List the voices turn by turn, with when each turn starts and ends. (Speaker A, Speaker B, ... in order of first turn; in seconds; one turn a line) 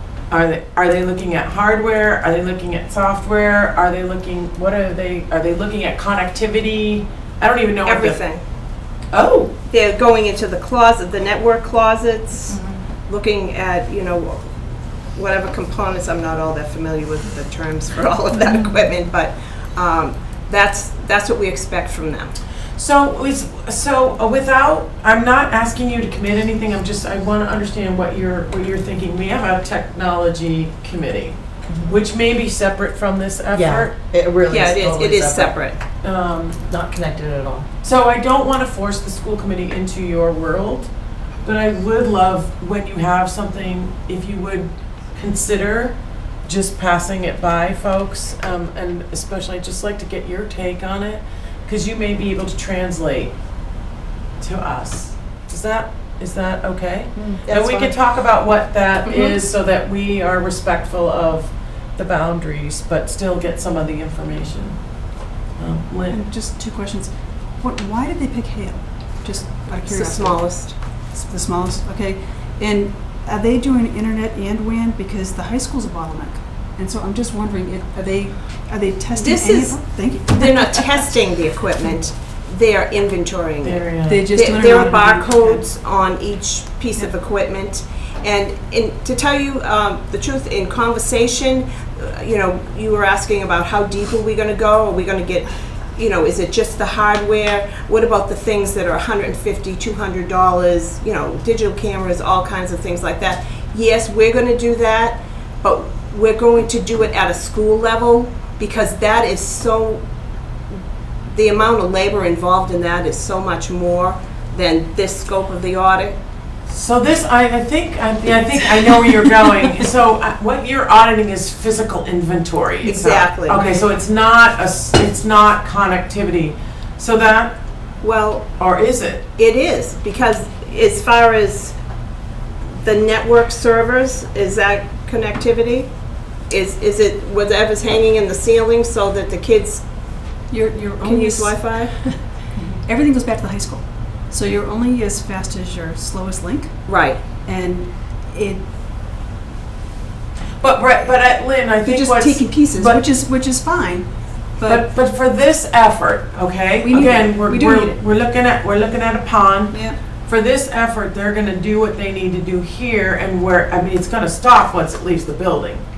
Speaker A: 0.3-8.2
Speaker B: 7.8-8.4
Speaker A: 9.1-9.5
Speaker B: 9.7-14.5
Speaker A: 12.5-12.7
Speaker B: 15.1-22.3
Speaker A: 22.8-33.9
Speaker C: 31.7-31.9
Speaker C: 33.5-35.6
Speaker B: 34.5-35.8
Speaker A: 36.0-36.6
Speaker C: 36.7-37.7
Speaker A: 37.8-40.9
Speaker A: 41.4-53.3
Speaker A: 54.4-64.8
Speaker C: 57.5-57.9
Speaker A: 65.6-66.2
Speaker D: 66.1-81.2
Speaker B: 69.8-70.7
Speaker B: 79.2-110.0
Speaker A: 83.6-84.3
Speaker D: 84.0-85.6
Speaker B: 111.3-116.2
Speaker A: 116.7-127.6
Speaker B: 122.8-123.8
Speaker B: 128.0-128.5
Speaker A: 128.6-129.3
Speaker B: 129.4-131.7
Speaker B: 132.8-135.9
Speaker B: 136.5-139.8
Speaker D: 140.5-148.6
Speaker B: 141.0-142.0
Speaker B: 146.8-147.2
Speaker A: 150.6-153.0
Speaker D: 151.8-154.8
Speaker A: 154.7-165.8
Speaker D: 156.8-158.0
Speaker D: 159.7-160.0